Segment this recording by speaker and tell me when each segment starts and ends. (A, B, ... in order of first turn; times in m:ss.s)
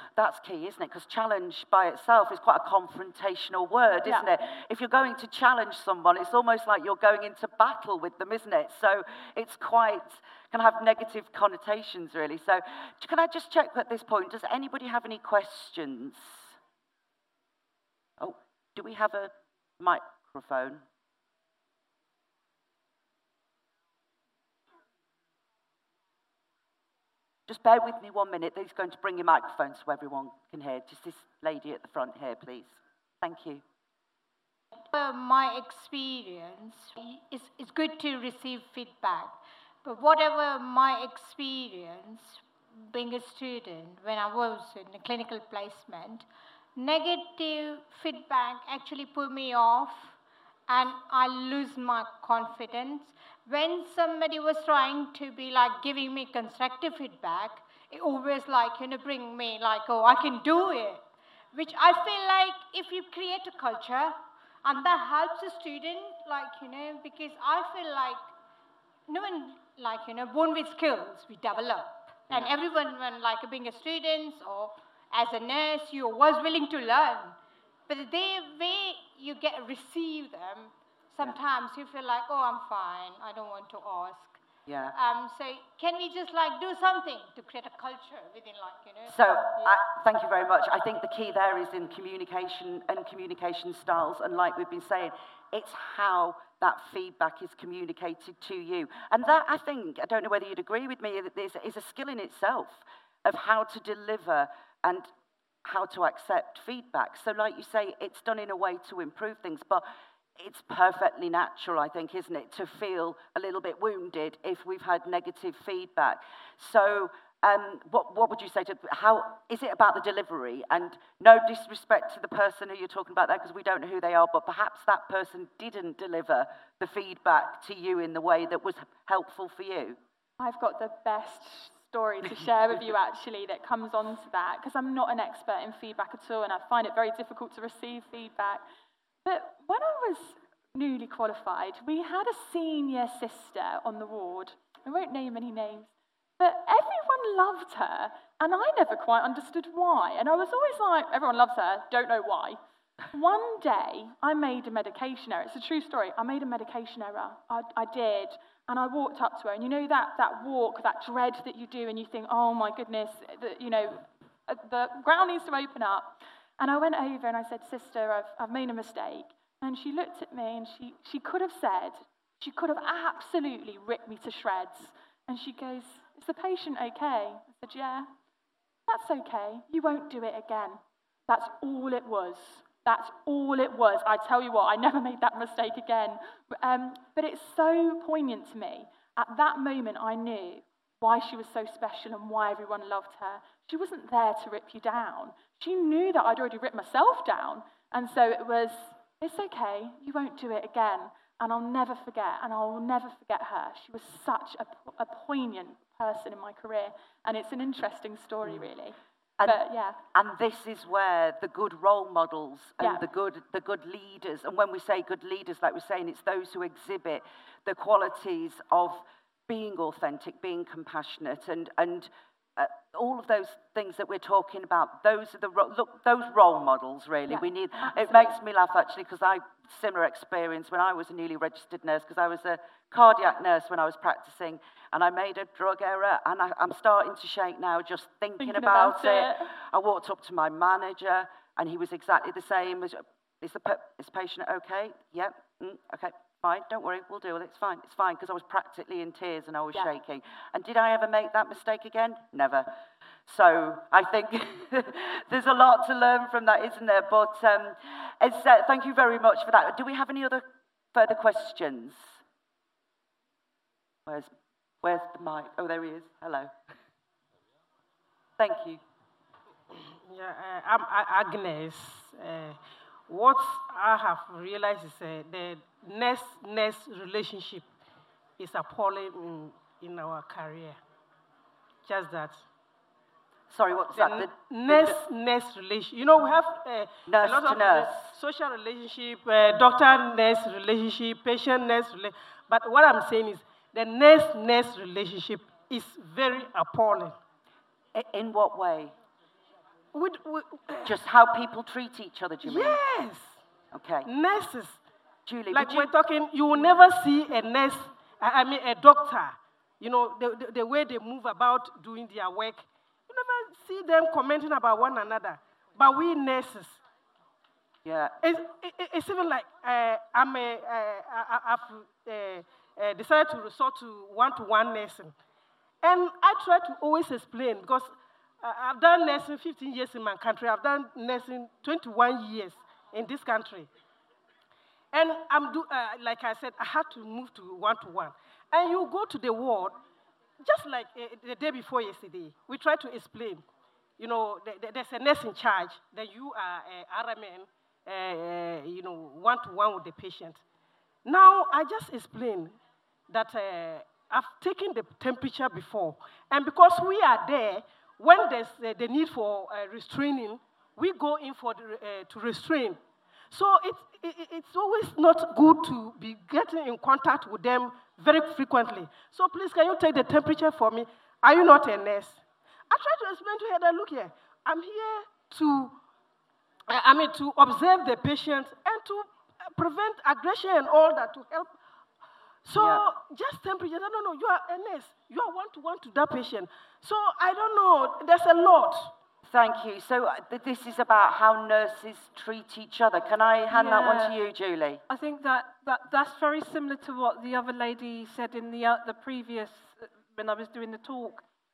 0:00.1-0:16.5 A
0:18.2-0:20.8 A
0:27.5-0:33.6 A
0:34.9-0:50.1 B
0:50.7-1:08.3 B
1:09.1-1:24.4 B
1:24.7-1:24.9 A
1:24.9-1:29.7 B
1:29.0-1:45.1 A
1:45.6-1:49.8 A
1:50.4-2:10.0 A
2:10.4-2:18.6 C
2:19.2-2:32.6 C
2:33.1-2:58.1 C
2:58.9-3:30.0 C
3:30.1-4:12.7 A
3:47.3-3:48.3 C
3:58.4-3:59.5 C
4:13.3-4:22.2 A
4:24.0-4:24.3 A
4:24.8-4:26.5 A
4:28.4-4:28.8 A
4:29.7-4:37.7 D
4:38.4-4:40.8 D
4:41.8-4:42.4 D
4:43.5-4:45.0 A
4:43.9-4:57.2 D
4:47.1-4:48.1 A
4:57.9-4:58.9 A
4:59.9-5:00.9 D
5:00.8-5:02.8 A
5:02.4-5:03.4 D
5:03.7-5:04.1 A
5:04.0-5:04.8 D
5:05.2-5:05.9 A
5:05.5-5:16.8 D
5:17.8-5:18.1 A
5:18.2-5:25.1 D
5:25.8-5:33.7 D
5:34.9-5:39.8 D
5:40.4-5:43.4 D
5:44.0-5:50.4 D
5:51.0-5:52.6 D
5:53.1-6:02.8 D
6:03.3-6:15.8 D
6:16.7-6:21.5 D
6:22.4-6:28.9 D
6:22.6-6:22.8 A
6:29.2-6:34.8 A
6:33.5-6:34.2 E
6:34.9-6:41.2 E